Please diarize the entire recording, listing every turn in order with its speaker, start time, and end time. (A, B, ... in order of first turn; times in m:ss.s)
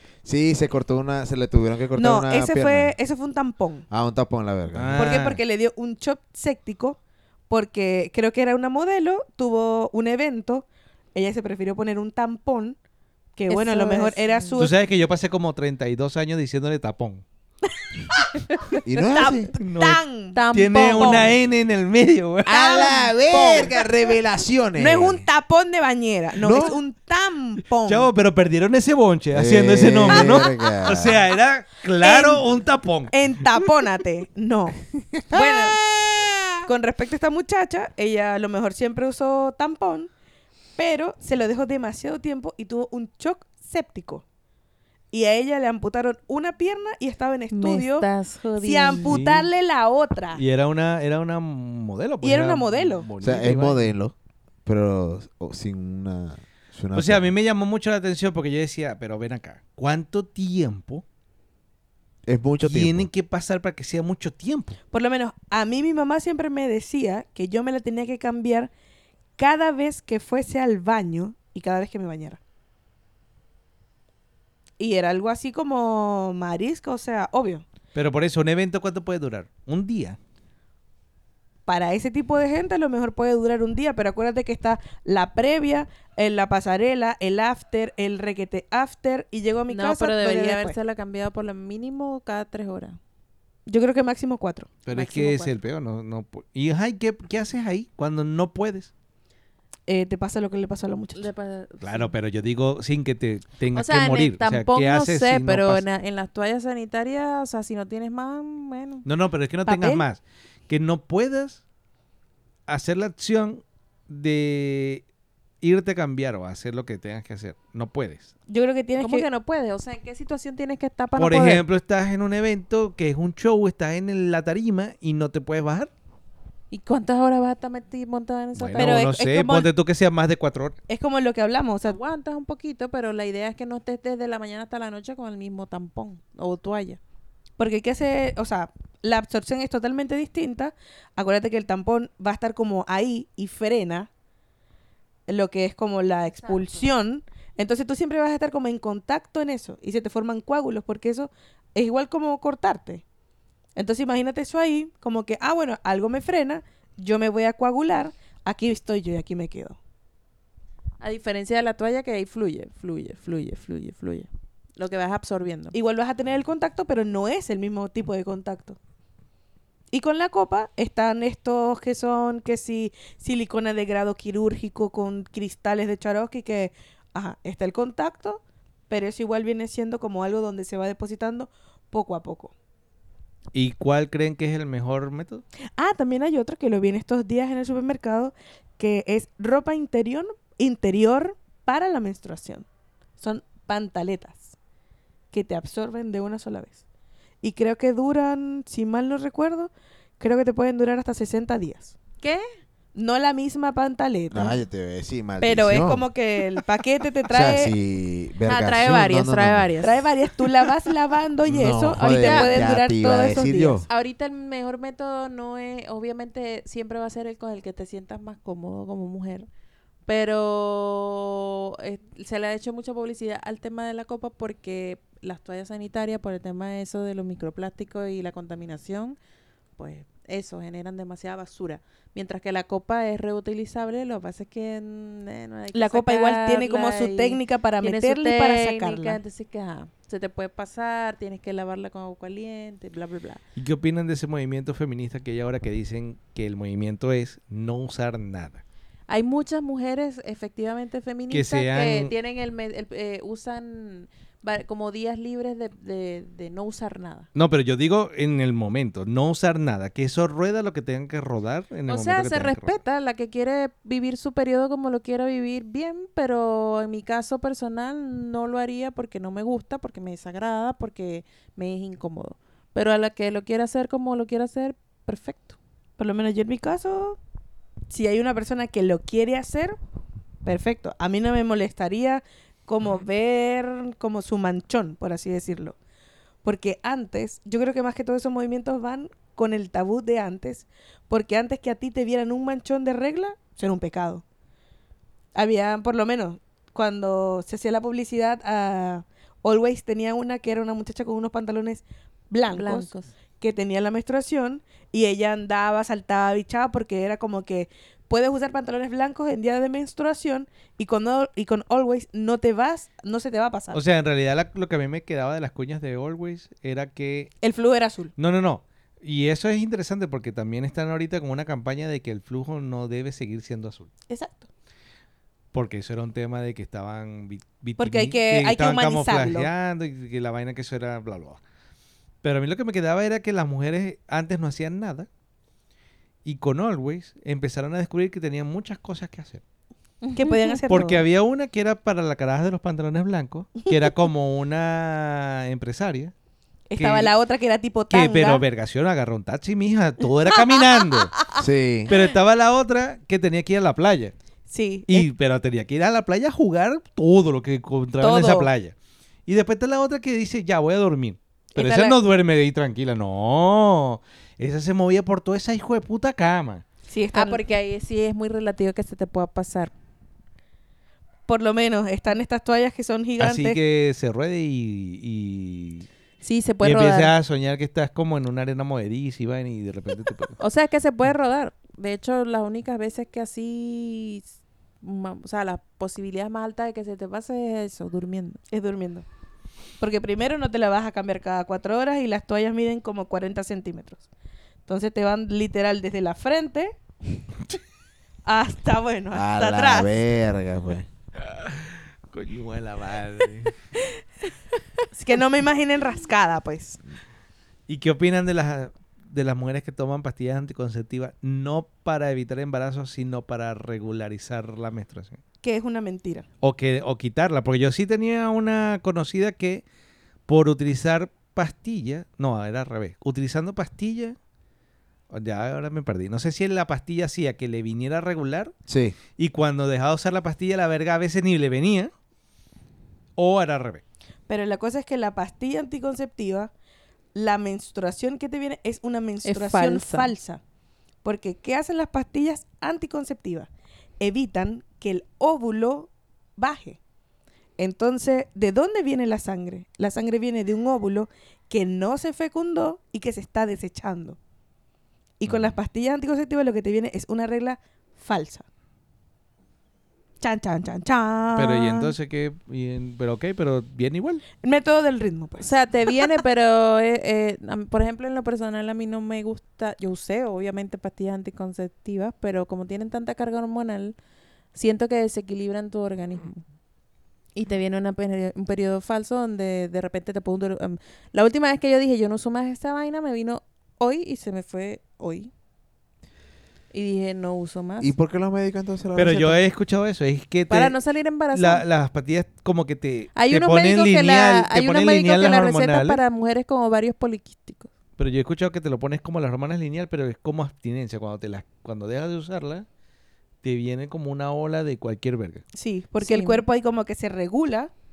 0:00.2-0:02.9 A
0:02.0-0:03.8 B
0:03.9-0:05.1 A
0:04.7-0:05.4 C
0:04.9-0:07.0 B
0:07.5-0:12.8 B
0:13.4-0:14.7 B
0:13.5-0:14.6 D
0:14.6-0:17.2 C
0:18.8-0:19.5 A
0:19.1-0:21.4 B
0:19.5-0:20.0 C
0:20.3-0:21.4 D
0:20.5-0:22.8 C
0:22.4-0:25.2 A
0:22.5-0:24.1 B
0:24.8-0:28.1 B
0:26.4-0:26.8 A
0:27.8-0:33.1 C
0:29.3-0:31.2 A
0:30.1-0:30.5 B
0:32.0-0:32.4 B
0:33.1-0:35.8 B
0:35.3-0:36.4 A
0:36.6-0:40.1 B
0:40.8-0:44.2 B
0:45.1-0:48.1 B
0:47.5-0:49.2 D
0:48.6-0:50.4 B
0:49.0-0:49.5 C
0:50.3-0:53.8 C
0:52.2-0:53.1 B
0:53.2-0:54.1 A
0:54.6-0:57.3 A
0:56.9-1:01.0 C
1:02.2-1:03.1 A
1:02.6-1:04.8 C
1:04.9-1:08.7 B
1:09.4-1:12.4 B
1:14.8-1:17.6 B
1:17.9-1:20.2 C
1:21.6-1:30.8 B
1:29.7-1:33.0 D
1:33.7-1:34.7 B
1:34.8-1:38.9 C
1:34.9-1:35.5 D
1:39.9-1:41.3 B
1:41.1-1:42.1 D
1:41.8-1:45.8 C
1:43.7-1:49.0 D
1:49.0-1:51.6 C
1:49.7-1:50.0 B
1:52.7-1:55.0 C
1:55.6-1:58.3 C
1:58.5-1:59.3 B
1:59.0-2:01.6 D
2:01.2-2:05.9 C
2:06.7-2:09.0 D
2:08.6-2:10.8 C
2:08.8-2:09.7 B
2:10.9-2:12.0 B
2:11.9-2:17.0 D
2:17.6-2:24.1 B
2:25.3-2:33.0 B
2:26.4-2:26.8 D
2:33.8-2:39.8 B
2:41.0-2:45.7 D
2:45.7-2:48.8 B
2:49.9-3:02.5 B
3:03.5-3:05.4 C
3:05.8-3:12.6 B
3:13.2-3:14.5 B
3:15.3-3:16.8 B
3:17.4-3:22.0 B
3:22.2-3:22.5 D
3:22.9-3:24.6 B
3:24.3-3:26.0 A
3:25.4-3:27.7 B
3:27.3-3:29.7 A
3:28.5-3:30.0 D
3:29.8-3:33.8 B
3:31.4-3:33.8 A
3:32.1-3:32.6 D
3:33.9-3:39.5 D
3:40.1-3:49.2 D
3:49.8-4:03.4 D
3:55.7-3:59.2 B
4:03.6-4:08.6 C
4:09.1-4:17.3 D
4:11.3-4:12.1 C
4:17.3-4:22.8 C
4:21.9-4:35.6 D
4:36.0-4:37.2 B
4:37.9-4:39.8 B
4:40.4-4:45.8 B
4:46.4-4:54.2 B
4:55.3-5:02.9 B
5:02.5-5:03.1 D
5:03.4-5:13.8 B
5:13.7-5:17.3 C
5:17.4-5:18.1 B
5:18.2-5:23.9 C
5:24.1-5:24.5 B
5:25.5-5:31.4 C
5:27.8-5:29.5 B
5:32.2-5:35.1 C
5:36.2-5:39.4 C
5:40.0-5:40.6 D
5:40.1-5:41.0 B
5:40.7-5:46.1 C
5:46.7-5:48.4 B
5:46.8-5:47.1 C
5:47.9-5:51.1 C
5:51.3-5:51.9 A
5:51.9-5:54.1 C
5:54.5-5:55.1 B
5:54.9-5:58.7 C
5:58.0-5:58.5 B
5:59.3-6:06.6 C
6:01.5-6:02.0 B
6:06.9-6:07.4 B
6:07.1-6:09.7 D
6:11.3-6:13.6 B
6:13.2-6:15.9 C
6:16.2-6:17.1 D
6:16.6-6:20.4 C
6:20.4-6:28.4 D
6:28.5-6:29.0 B
6:29.8-6:34.0 B
6:34.7-6:36.8 B
6:38.2-6:39.9 B
6:39.1-6:40.9 A
6:41.2-6:43.5 C
6:44.9-6:46.8 B
6:47.7-6:55.2 C
6:55.4-6:56.2 B
6:56.4-6:59.6 C
7:00.3-7:04.2 C
7:05.1-7:08.5 C
7:08.7-7:09.0 A
7:09.2-7:11.9 C
7:13.2-7:13.8 C
7:14.3-7:16.5 B
7:17.1-7:20.4 B
7:19.2-7:20.1 D
7:21.0-7:26.8 B
7:27.6-7:34.2 B
7:35.2-7:38.4 B
7:40.2-7:41.9 B
7:41.4-7:44.2 C
7:44.4-7:45.5 B
7:45.4-7:53.9 D
7:54.5-7:56.4 D
7:57.3-8:05.3 D
8:06.7-8:07.9 D
8:07.8-8:09.4 A
8:09.0-8:10.8 C
8:10.5-8:11.6 D
8:11.3-8:16.0 C
8:13.1-8:17.7 D
8:18.0-8:22.6 C
8:23.4-8:25.4 C
8:25.5-8:27.7 B
8:26.0-8:26.4 D